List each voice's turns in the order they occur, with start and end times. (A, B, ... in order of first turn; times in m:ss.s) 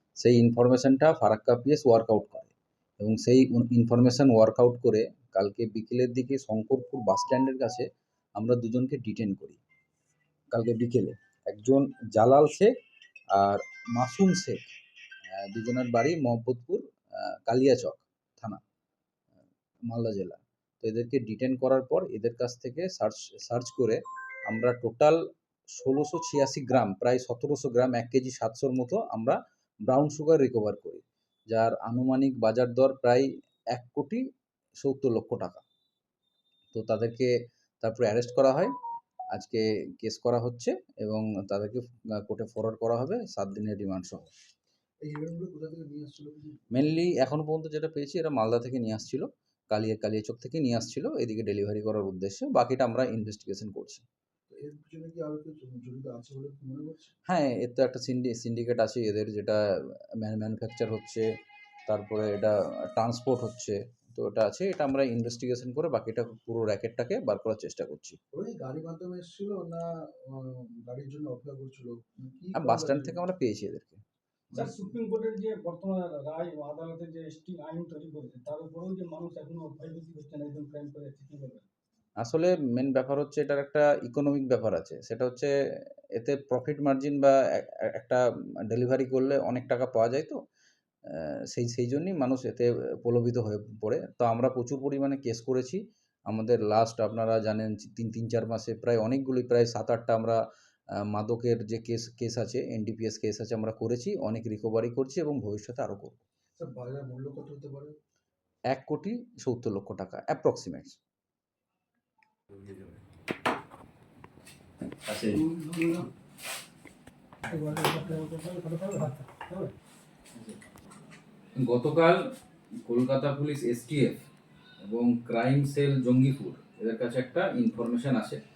0:00.2-0:07.8 A
0:08.4-0:09.6 A
0:10.5-0:12.7 A
0:13.3-0:14.6 A
0:15.3-0:18.6 A
0:19.9-0:25.2 A
0:25.8-0:34.2 A
0:34.8-0:35.6 A
0:36.7-0:38.7 A
0:39.3-0:44.3 A
0:45.0-0:46.6 B
0:46.7-0:54.0 A
0:54.5-0:57.1 B
0:57.3-0:59.6 A
1:00.2-1:01.3 A
1:01.9-1:08.2 A
1:08.3-1:13.2 B
1:12.5-1:14.0 A
1:14.5-1:14.9 B
1:14.5-1:21.6 C
1:22.2-1:25.5 A
1:26.1-1:30.4 A
1:31.1-1:40.4 A
1:41.1-1:46.2 A
1:46.6-1:47.9 B
1:48.7-1:51.0 A
1:55.0-1:55.4 A
1:55.3-1:56.1 C
1:57.4-1:59.7 C
2:01.6-2:02.2 A
2:02.8-2:04.2 A
2:04.8-2:08.4 A